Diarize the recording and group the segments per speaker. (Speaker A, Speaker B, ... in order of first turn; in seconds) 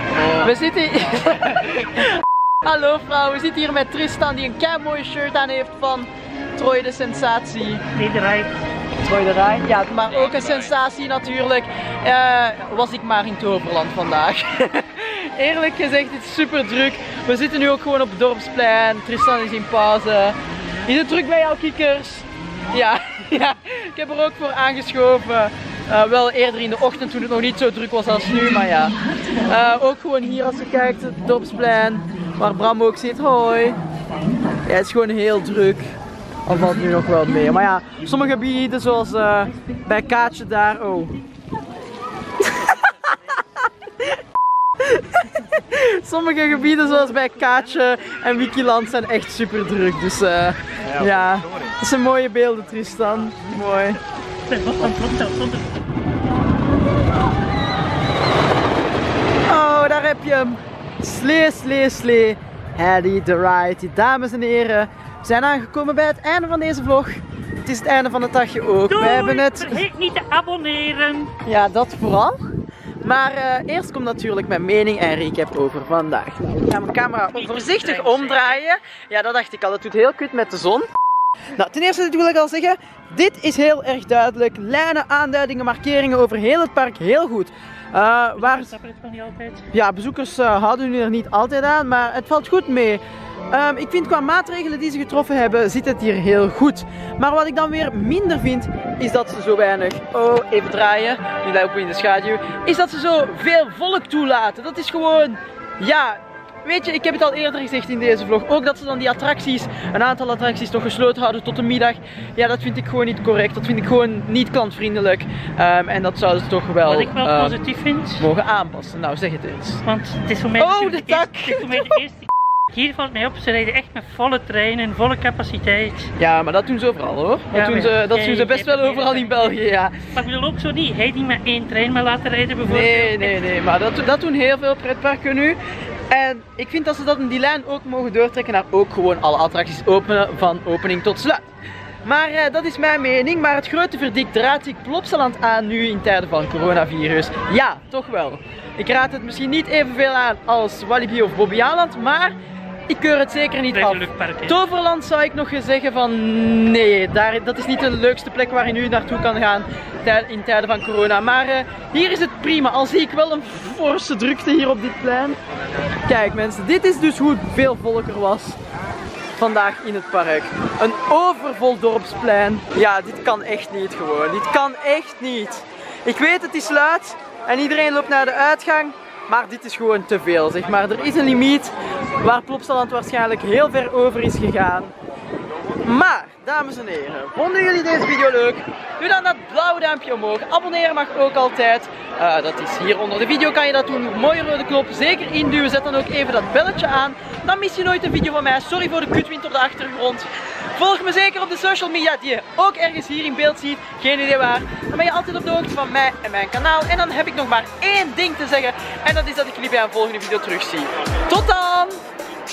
Speaker A: 0.3-7.8, 9.0-33.8, 34.7-35.9, 36.5-41.2, 42.4-43.4, 44.8-54.0, 59.5-69.8, 71.5-72.4, 73.0-80.9, 81.6-88.7, 89.7-117.6, 118.2-119.8, 120.6-122.0, 126.2-130.1, 132.7-135.6, 136.1-141.5, 142.0-152.3, 152.9-165.4, 166.1-168.6, 169.4-184.9, 185.8-212.0
Speaker B: 8.0-8.6, 54.5-55.8, 68.9-71.3, 77.3-78.6, 88.4-89.7, 116.9-118.3, 119.8-126.1, 127.5-133.5, 153.7-154.6